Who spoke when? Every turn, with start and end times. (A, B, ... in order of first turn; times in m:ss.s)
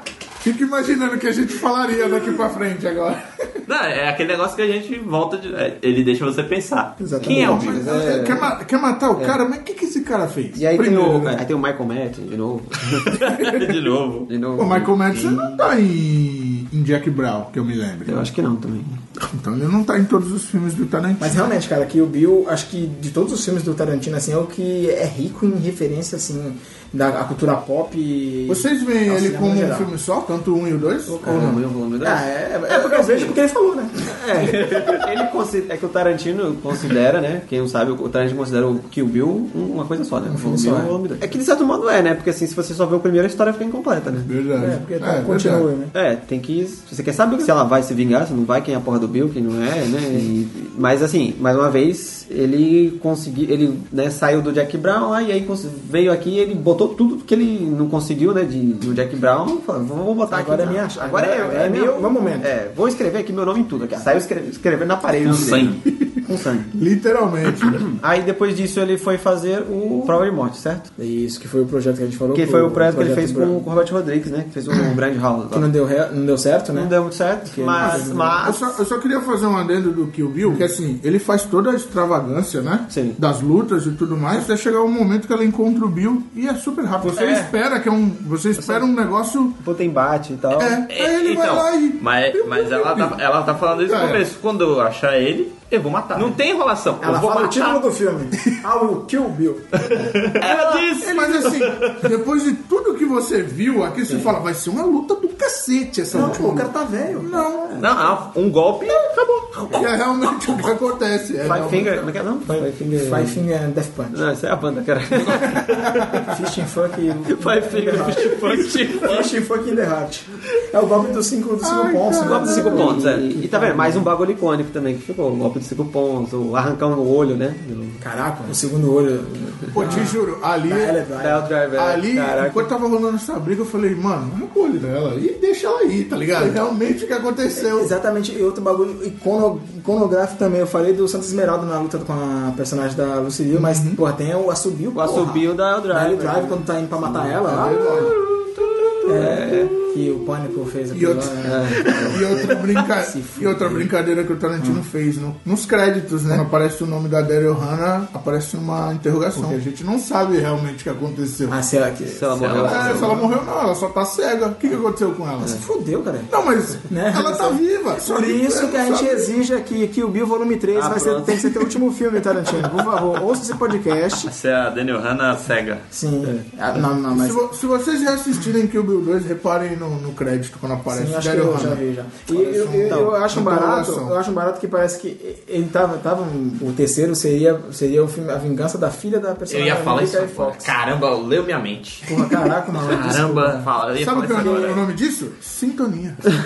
0:00.4-0:03.4 A
0:03.7-0:07.9 B
0:07.0-0:07.8 C
0:07.2-0:08.5 D
0:07.5-0:11.4 A
0:10.5-0:13.1 D
0:13.1-0:14.3 B
0:13.1-0:13.7 A
0:14.3-0:14.9 D
0:14.6-0:18.3 A
0:15.1-0:15.7 B
0:18.0-0:19.0 D
0:19.2-0:21.4 A
0:21.2-0:29.9 C
0:28.5-0:31.6 A
0:31.0-0:34.2 C
0:31.2-0:33.4 D
0:34.2-0:44.3 D
0:40.2-0:41.2 C
0:44.2-0:45.7 A
0:44.5-0:45.9 C
0:45.9-1:06.7 D
1:00.3-1:02.5 C
1:05.2-1:05.8 B
1:05.8-1:07.9 A
1:07.8-1:10.9 D
1:11.0-1:13.7 C
1:12.3-1:15.7 D
1:14.7-1:15.0 C
1:15.5-1:18.5 C
1:16.7-1:18.8 D
1:17.7-1:29.6 A
1:22.9-1:23.2 D
1:27.0-1:27.5 D
1:28.6-1:28.9 D
1:29.6-1:30.8 D
1:30.5-1:33.2 A
1:30.9-1:37.8 B
1:33.8-1:34.2 A
1:37.0-1:40.2 C
1:39.8-1:42.1 B
1:40.6-1:47.8 A
1:46.1-1:47.5 C
1:47.7-1:49.9 B
1:49.7-1:52.1 A
1:51.4-1:53.4 D
1:52.4-1:54.2 C
1:54.1-1:55.6 D
1:56.2-2:04.1 C
1:57.2-1:59.1 D
1:58.2-1:59.2 B
2:01.6-2:03.1 A
2:02.2-2:08.0 D
2:08.0-2:11.5 C
2:09.7-2:11.0 A
2:09.8-2:10.1 D
2:11.2-2:12.7 D
2:11.7-2:17.9 A
2:17.5-2:28.1 C
2:23.5-2:24.0 A
2:24.9-2:27.4 D
2:27.4-2:28.1 A
2:28.0-2:28.9 B
2:29.0-2:29.7 D
2:29.0-2:33.9 C
2:30.9-2:41.6 A
2:31.4-2:32.4 D
2:34.6-2:34.8 C
2:39.3-2:39.6 C
2:41.5-2:43.4 C
2:42.0-2:43.2 D
2:42.4-2:42.8 B
2:42.6-2:45.6 A
2:45.4-2:46.3 C
2:46.3-2:49.3 A
2:46.9-2:54.3 C
2:50.7-2:51.4 D
2:54.2-2:55.8 B
2:55.9-2:57.4 C
2:57.1-3:04.1 A
3:00.9-3:10.7 C
3:02.8-3:03.1 D
3:09.5-3:12.2 B
3:12.0-3:13.7 C
3:12.8-3:14.8 B
3:14.0-3:16.3 A
3:14.3-3:14.8 C